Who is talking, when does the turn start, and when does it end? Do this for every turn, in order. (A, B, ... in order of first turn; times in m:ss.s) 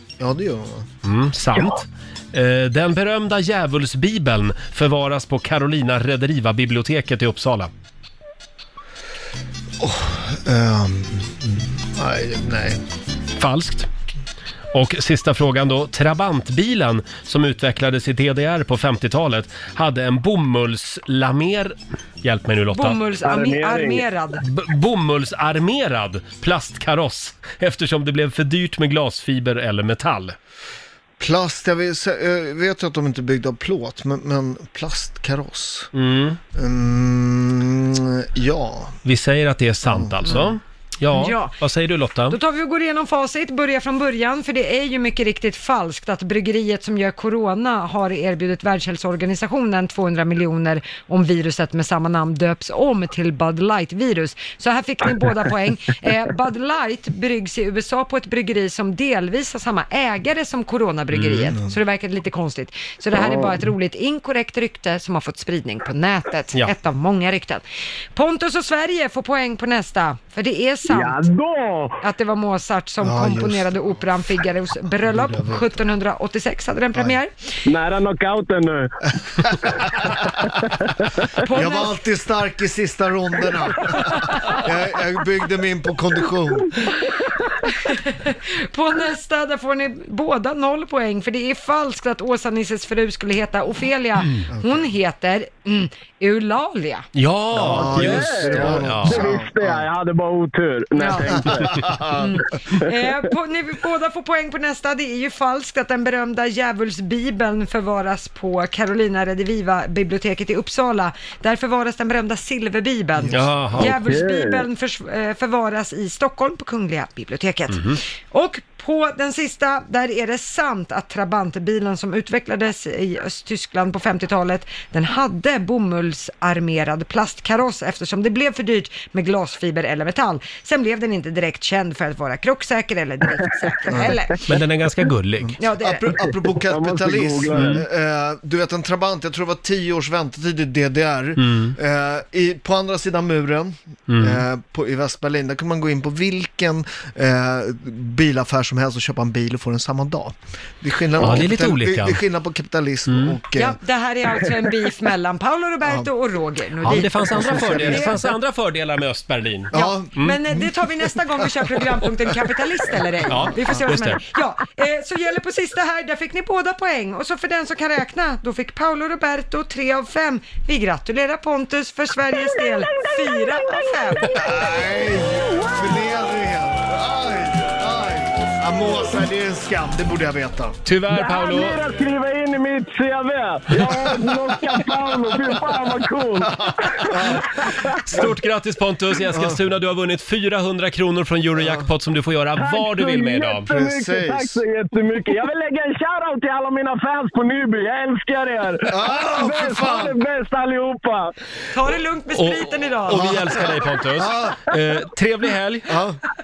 0:00.2-0:00.9 A
0:01.0-0:07.7 B
0:09.8-0:12.8 A
0:13.4-0:13.9 B
0:14.7-0:23.0 B
0:22.7-0:24.4 C
0:23.2-0:24.1 D
0:24.4-0:30.4 B
0:31.2-0:35.9 A
0:35.9-0:36.4 B
0:36.6-0:39.0 A
0:39.0-0:42.4 B
0:39.9-0:40.5 A
0:41.1-0:41.6 C
0:42.3-1:07.6 C
1:01.1-1:01.5 B
1:03.1-1:03.6 D
1:08.2-1:11.3 C
1:10.9-1:12.0 D
1:12.0-1:17.3 C
1:13.0-1:14.0 A
1:15.1-1:15.7 A
1:17.6-1:18.9 D
1:19.4-1:20.5 A
1:21.5-1:22.0 C
1:21.5-1:26.7 A
1:27.9-1:37.1 C
1:34.5-1:34.9 A
1:37.2-1:39.3 B
1:37.6-1:39.9 A
1:37.6-1:41.9 D
1:41.0-1:41.4 C
1:41.3-1:42.4 A
1:42.2-2:14.4 C
1:53.2-1:53.7 A
1:53.3-1:54.0 B
1:53.8-1:54.7 D
1:57.7-1:58.0 B
2:13.9-2:14.2 A
2:14.5-2:15.6 B
2:15.4-2:33.8 A
2:15.6-2:16.1 C
2:16.1-2:17.8 D
2:17.5-2:17.8 B
2:21.4-2:21.8 B
2:24.1-2:24.4 B
2:31.2-2:32.2 B
2:33.1-2:33.4 B
2:33.6-2:38.3 C
2:36.8-2:40.4 B
2:36.9-2:38.2 A
2:39.7-2:41.8 A
2:39.7-2:54.4 C
2:43.3-2:44.2 B
2:43.4-2:43.8 A
2:54.4-3:00.8 A
2:55.8-2:56.3 D
2:58.8-2:59.2 D
3:00.8-3:01.8 B
3:01.1-3:08.3 D
3:03.9-3:05.6 A
3:06.4-3:07.5 A
3:08.0-3:13.7 B
3:09.3-3:09.6 A
3:12.6-3:21.3 D
3:13.6-3:14.6 A
3:18.9-3:20.2 A
3:21.7-3:23.5 C
3:22.3-3:25.9 B
3:23.1-3:23.6 A
3:24.2-3:24.6 A
3:25.9-3:26.2 A